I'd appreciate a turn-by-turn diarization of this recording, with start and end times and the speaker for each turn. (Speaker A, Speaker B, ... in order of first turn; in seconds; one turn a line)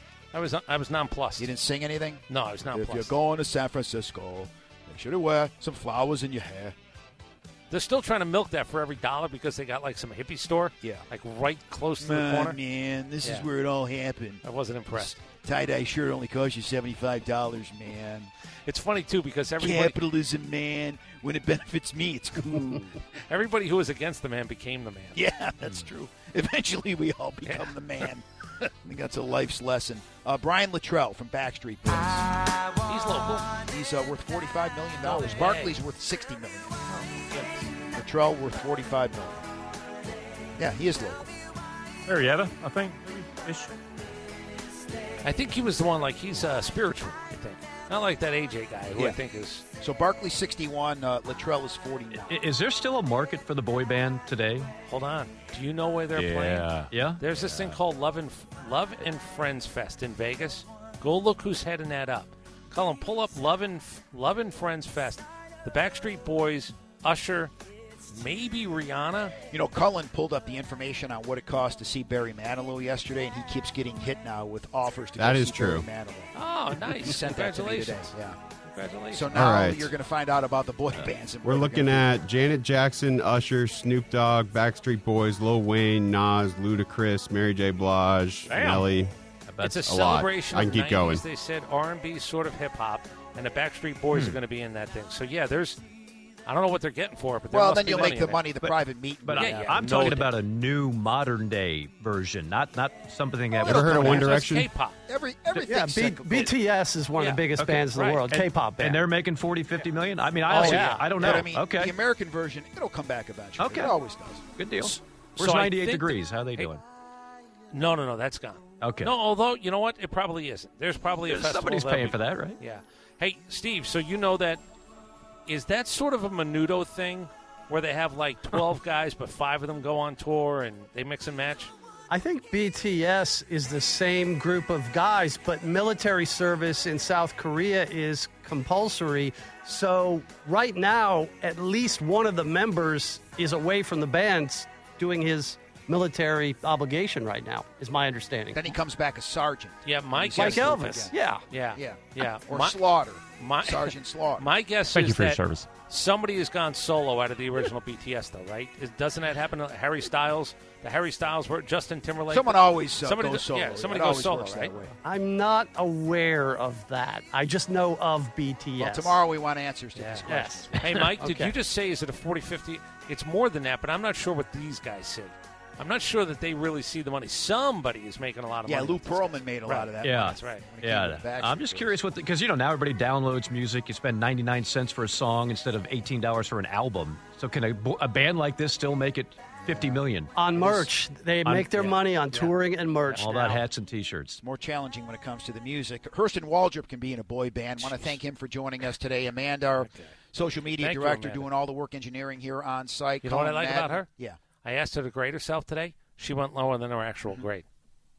Speaker A: 0.3-1.5
Speaker B: 1.4-6.7
Speaker A: 2.3-3.1
Speaker A: 7.7-12.6
Speaker B: 12.0-18.3
Speaker A: 13.2-13.5
Speaker A: 14.4-15.1
Speaker A: 18.6-20.0
Speaker B: 19.6-22.9
Speaker A: 23.3-25.2
Speaker B: 25.1-32.3
Speaker A: 27.4-27.7
Speaker A: 32.9-33.5
Speaker B: 33.7-36.7
Speaker A: 35.0-35.7
Speaker A: 36.9-37.7
Speaker B: 37.9-39.4
Speaker B: 40.6-41.3
Speaker C: 42.0-43.8
Speaker A: 45.2-49.6
Speaker B: 49.8-52.4
Speaker D: 52.2-54.7
Speaker A: 54.9-67.5
Speaker C: 56.1-57.7
Speaker D: 56.9-57.2
Speaker A: 68.1-69.3
Speaker B: 69.5-76.3
Speaker E: 75.2-75.9
Speaker A: 76.3-79.4
Speaker B: 76.8-78.4
Speaker B: 79.1-82.2
Speaker E: 79.3-79.9
Speaker E: 81.4-89.1
Speaker C: 88.5-88.9
Speaker D: 89.5-90.1
Speaker A: 89.6-95.8
Speaker E: 89.8-91.2
Speaker D: 94.1-94.4
Speaker A: 96.5-98.5
Speaker B: 97.5-100.2
Speaker D: 98.6-104.3
Speaker A: 99.3-100.3
Speaker A: 103.6-105.0
Speaker E: 103.6-104.7
Speaker B: 103.7-104.5
Speaker B: 105.1-106.5
Speaker F: 105.6-109.1
Speaker A: 107.2-108.3
Speaker D: 107.6-111.9
Speaker A: 110.5-111.4
Speaker B: 110.5-114.4
Speaker F: 110.7-111.0
Speaker D: 113.6-114.0
Speaker D: 114.5-116.8
Speaker A: 115.4-116.7
Speaker A: 117.7-124.6
Speaker D: 118.8-119.2
Speaker D: 121.2-122.6
Speaker A: 125.5-131.7
Speaker F: 132.1-148.8
Speaker B: 148.5-151.1
Speaker A: 149.8-152.8
Speaker F: 150.3-151.4
Speaker B: 151.7-154.5
Speaker A: 153.4-164.7
Speaker C: 154.9-155.7
Speaker B: 162.3-164.9
Speaker F: 165.0-169.2
Speaker B: 168.8-171.2
Speaker A: 169.9-180.7
Speaker F: 170.2-171.5
Speaker B: 178.7-182.0
Speaker D: 180.0-190.3
Speaker B: 189.6-190.0
Speaker F: 190.3-193.6
Speaker B: 190.6-190.9
Speaker D: 191.4-192.0
Speaker A: 193.0-193.6
Speaker D: 193.2-194.4
Speaker B: 194.4-204.4
Speaker A: 197.8-198.2
Speaker A: 199.8-200.1
Speaker A: 200.8-201.5
Speaker A: 203.2-204.1
Speaker A: 204.6-207.6